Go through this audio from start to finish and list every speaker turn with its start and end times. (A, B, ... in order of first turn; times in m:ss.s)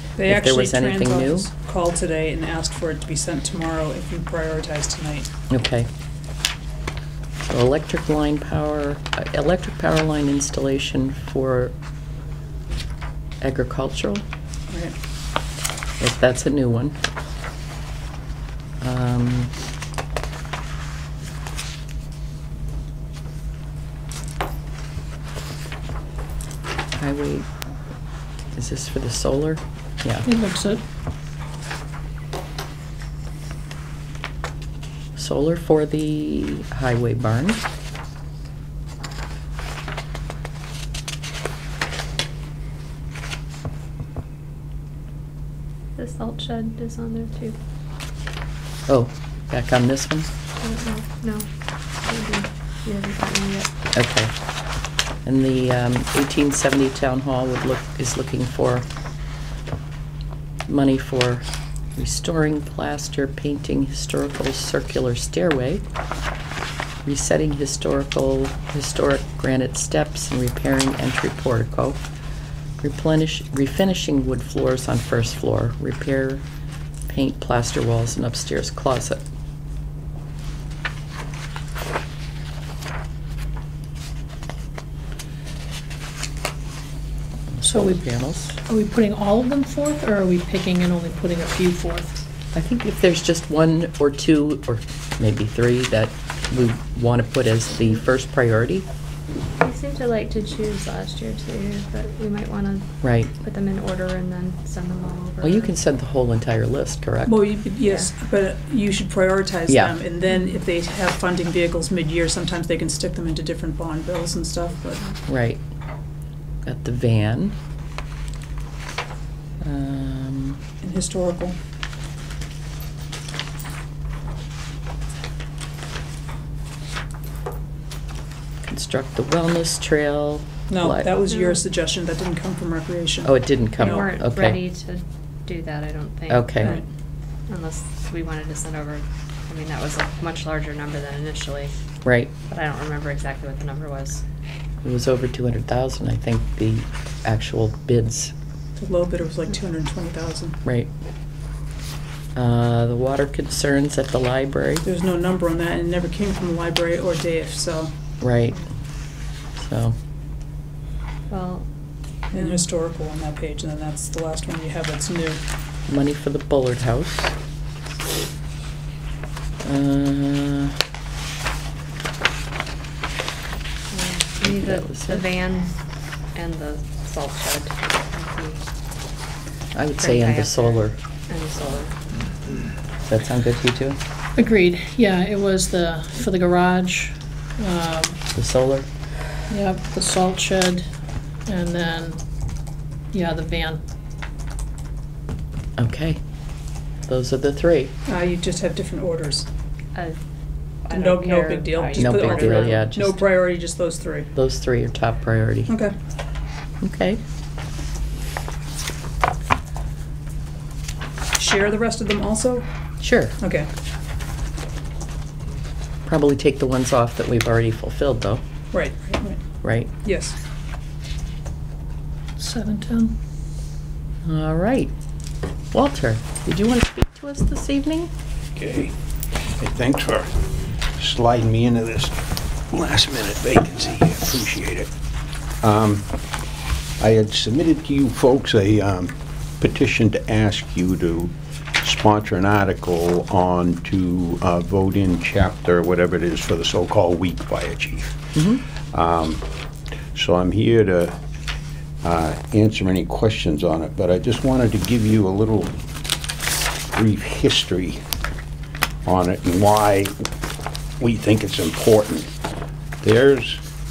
0:00.2-0:05.3 A
0:00.3-0:01.5 B
0:05.5-0:05.9 B
0:07.4-0:11.7 B
0:13.4-0:14.2 B
0:14.7-0:15.0 A
0:16.0-0:17.0 B
0:18.8-0:19.5 B
0:27.0-0:27.5 B
0:28.6-0:30.3 B
0:30.2-0:30.8 C
0:35.2-0:37.6 B
0:46.0-0:47.6 D
0:48.9-0:50.3 B
0:50.6-0:51.5 D
0:52.0-0:53.7 D
0:53.9-0:54.3 B
0:55.2-0:58.8 B
1:00.7-1:01.4 B
1:02.0-1:05.8 B
1:07.0-1:12.0 B
1:12.8-1:16.4 B
1:17.1-1:19.2 B
1:27.6-1:28.6 B
1:27.7-1:28.1 C
1:28.6-1:32.3 C
1:32.5-1:38.9 B
1:39.6-1:45.7 D
1:43.0-1:43.3 B
1:45.4-1:47.4 B
1:47.3-1:55.2 A
1:47.8-1:48.1 D
1:49.7-1:49.9 B
1:55.3-1:55.6 B
1:56.6-1:57.6 B
1:59.6-2:00.6 B
2:00.8-2:01.6 A
2:08.6-2:11.1 B
2:10.7-2:14.1 A
2:11.3-2:11.6 D
2:13.2-2:14.6 B
2:13.8-2:16.8 D
2:16.3-2:16.8 B
2:17.5-2:21.7 D
2:22.0-2:22.3 B
2:22.5-2:24.2 D
2:24.8-2:28.3 B
2:28.8-2:30.6 A
2:30.6-2:30.9 B
2:32.4-2:34.8 B
2:34.8-2:37.9 A
2:38.2-2:38.7 B
2:39.6-2:40.0 B
2:41.3-2:41.7 D
2:42.3-2:45.4 A
2:45.9-2:47.3 B
2:49.6-2:50.8 B
2:53.9-2:55.7 D
2:54.4-2:55.2 B
2:56.3-2:58.6 D
2:59.8-3:01.0 B
3:00.0-3:02.0 D
3:03.1-3:04.0 B
3:04.4-3:08.2 C
3:08.4-3:08.9 B
3:09.5-3:10.8 C
3:11.5-3:12.2 C
3:13.1-3:13.8 C
3:15.8-3:16.2 B
3:17.1-3:17.9 B
3:18.1-3:19.5 A
3:20.8-3:22.8 D
3:20.9-3:24.3 A
3:22.0-3:23.2 B
3:24.4-3:25.8 B
3:25.7-3:25.9 A
3:26.8-3:27.2 B
3:31.4-3:32.7 A
3:33.0-3:33.4 B
3:33.4-3:33.7 A
3:36.1-3:38.4 B
3:38.7-3:39.4 A
3:39.6-3:39.9 B
3:40.0-3:40.4 A
3:42.4-3:43.2 C
3:44.2-3:44.9 B
3:45.7-3:48.1 B
3:48.6-3:48.9 E
3:49.6-3:50.3 E
3:51.0-3:54.9 E
3:55.6-3:56.1 E
3:57.0-4:08.2 E
4:08.4-4:08.6 B
4:08.9-4:09.4 E
4:10.2-4:11.2 E
4:12.0-4:15.8 E
4:16.9-4:18.0 E
4:19.0-4:20.2 E
4:21.0-4:22.3 E
4:23.0-4:23.6 E